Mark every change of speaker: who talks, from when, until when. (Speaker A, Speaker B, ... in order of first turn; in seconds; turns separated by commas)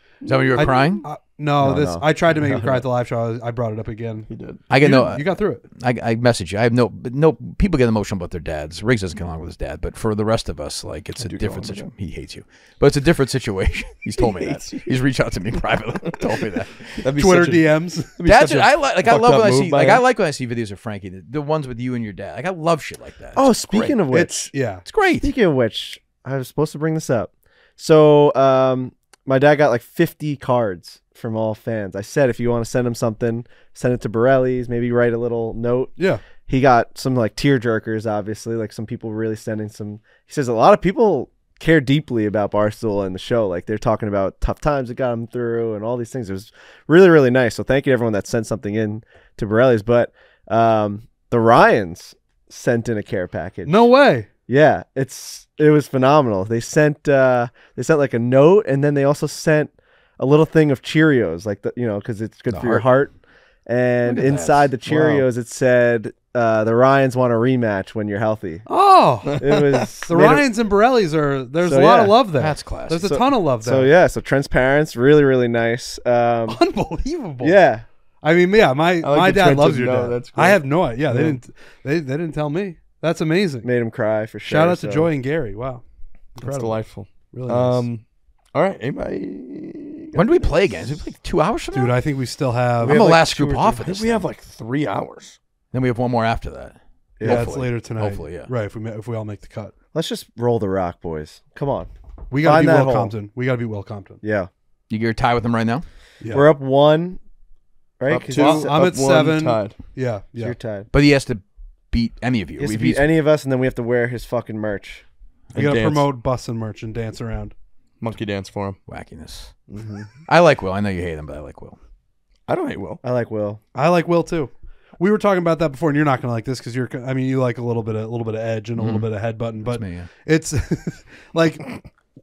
Speaker A: 0.2-1.1, Speaker B: 0.3-1.0, Speaker C: 0.6-5.7, Speaker D: 1.6-2.1, Speaker B: 2.3-2.8, Speaker B: 4.3-4.6, Speaker A: 4.7-17.2, Speaker B: 11.2-11.9, Speaker B: 14.2-14.9, Speaker B: 16.1-16.5, Speaker B: 17.0-20.0, Speaker C: 17.1-18.1, Speaker A: 18.2-24.0, Speaker D: 23.4-24.5, Speaker C: 24.1-24.8, Speaker A: 24.8-25.3, Speaker D: 25.2-53.9, Speaker C: 36.0-36.2, Speaker C: 53.6-54.3, Speaker D: 54.5-63.1, Speaker A: 62.5-62.9, Speaker D: 63.7-68.7, Speaker A: 64.0-64.7, Speaker B: 64.9-65.3, Speaker C: 68.7-73.9, Speaker B: 69.3-69.9, Speaker D: 69.4-70.5, Speaker D: 71.6-72.2, Speaker A: 72.3-73.2, Speaker D: 73.1-76.6, Speaker C: 76.5-77.7, Speaker D: 77.4-77.8, Speaker C: 78.2-83.7, Speaker B: 79.0-81.4, Speaker D: 83.6-85.1, Speaker C: 84.5-87.9, Speaker B: 86.4-91.1, Speaker A: 90.1-92.0, Speaker C: 91.7-93.0, Speaker A: 92.8-94.3, Speaker D: 92.8-93.8, Speaker B: 93.8-95.4, Speaker A: 95.7-98.5, Speaker D: 97.2-97.6, Speaker C: 97.2-99.7, Speaker D: 99.9-101.9, Speaker C: 102.3-104.2, Speaker D: 102.4-103.1, Speaker D: 104.2-104.5, Speaker A: 104.9-105.8, Speaker C: 106.2-106.5, Speaker D: 106.3-107.2, Speaker D: 108.0-108.7, Speaker B: 108.1-109.8, Speaker C: 108.3-110.6, Speaker D: 110.4-110.9, Speaker A: 110.9-113.0, Speaker D: 112.6-115.0, Speaker B: 115.5-116.1, Speaker C: 115.5-117.5, Speaker B: 118.0-118.8, Speaker A: 118.9-119.7, Speaker B: 119.7-120.1, Speaker A: 120.2-121.8, Speaker B: 122.5-123.0, Speaker D: 123.0-123.6, Speaker C: 123.8-131.8, Speaker A: 128.8-130.1